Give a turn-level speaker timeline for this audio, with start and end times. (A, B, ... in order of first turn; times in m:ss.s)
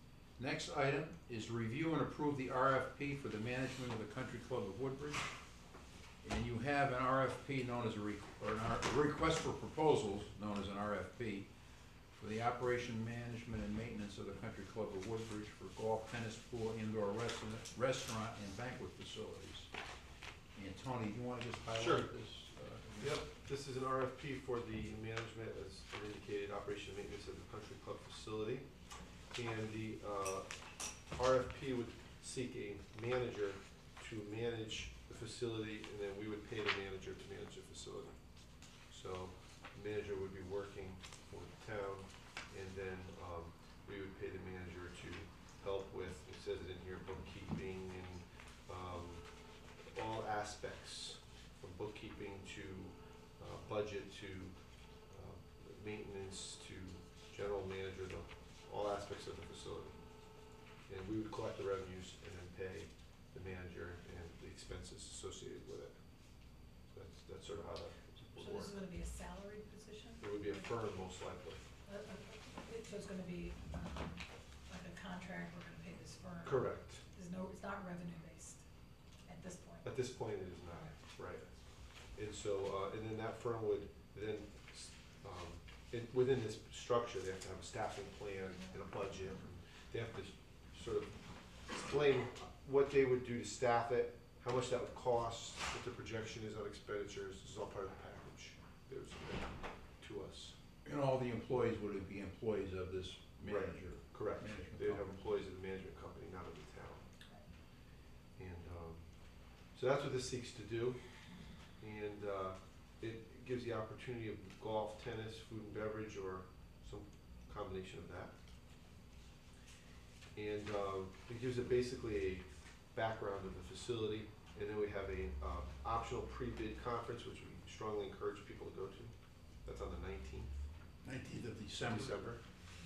0:00.4-0:05.2 A
0:06.2-0:11.5 A
0:12.2-0:19.7 A
0:20.5-0:23.2 A
0:21.8-0:22.1 B
0:23.0-0:28.6 B
0:29.3-0:30.5 B
0:31.1-0:38.2 B
0:38.9-0:49.2 B
0:49.9-0:54.6 B
0:55.1-1:00.0 B
1:00.9-1:05.9 B
1:06.9-1:08.8 B
1:08.3-1:10.7 C
1:10.2-1:11.6 B
1:11.8-1:18.6 C
1:16.4-1:17.0 B
1:19.2-1:19.9 C
1:19.8-1:21.5 B
1:22.1-1:31.2 B
1:31.7-1:40.5 B
1:40.8-1:45.1 A
1:43.4-1:47.0 B
1:48.4-1:49.0 B
1:49.7-1:51.0 B
1:51.8-1:58.3 B
2:00.3-2:09.1 B
2:09.6-2:10.5 B
2:11.0-2:12.2 A
2:11.8-2:12.4 B